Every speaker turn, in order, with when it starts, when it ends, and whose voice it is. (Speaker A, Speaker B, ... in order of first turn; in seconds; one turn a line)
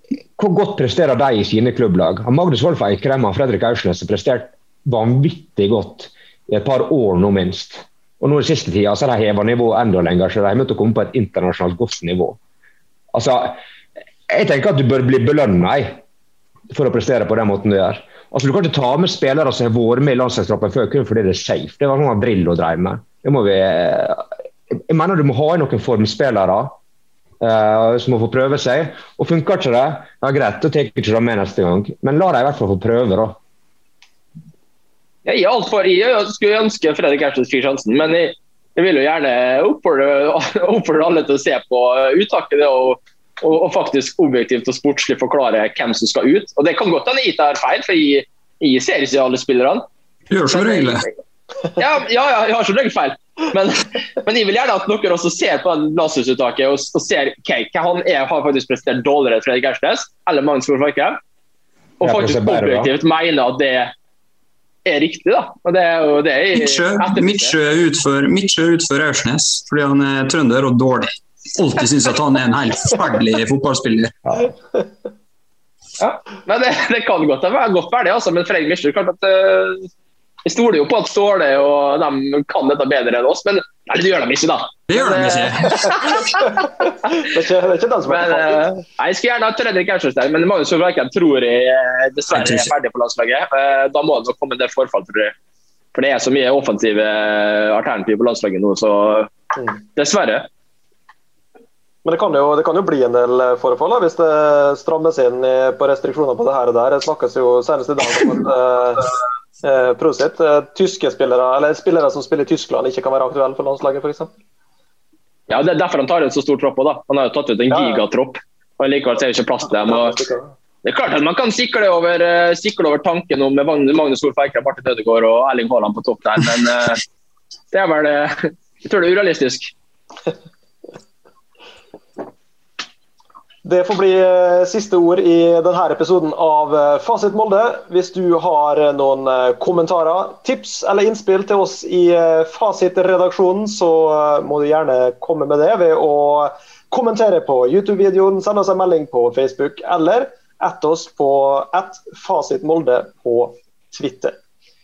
Speaker A: 0.4-12.4
Speaker A: 13.1-13.6
Speaker A: 14.3-16.0
Speaker A: 16.7-26.8
Speaker A: 27.4-33.4
Speaker B: 35.2-49.8
Speaker C: 50.3-51.0
Speaker B: 50.5-51.1
Speaker B: 51.7-61.2
Speaker B: 62.0-63.9
Speaker A: 62.0-62.9
Speaker B: 64.8-67.5
Speaker C: 66.5-74.4
Speaker B: 76.0-79.9
Speaker B: 80.4-86.5
Speaker C: 84.9-86.0
Speaker D: 86.9-88.6
Speaker B: 88.1-95.3
Speaker C: 92.3-92.7
Speaker B: 95.9-99.3
Speaker B: 99.9-100.5
Speaker D: 102.0-109.0
Speaker D: 109.6-114.3
Speaker B: 115.5-120.1
Speaker D: 117.7-118.0
Speaker D: 119.8-120.5
Speaker B: 120.8-127.0
Speaker B: 127.7-129.7
Speaker D: 133.6-154.4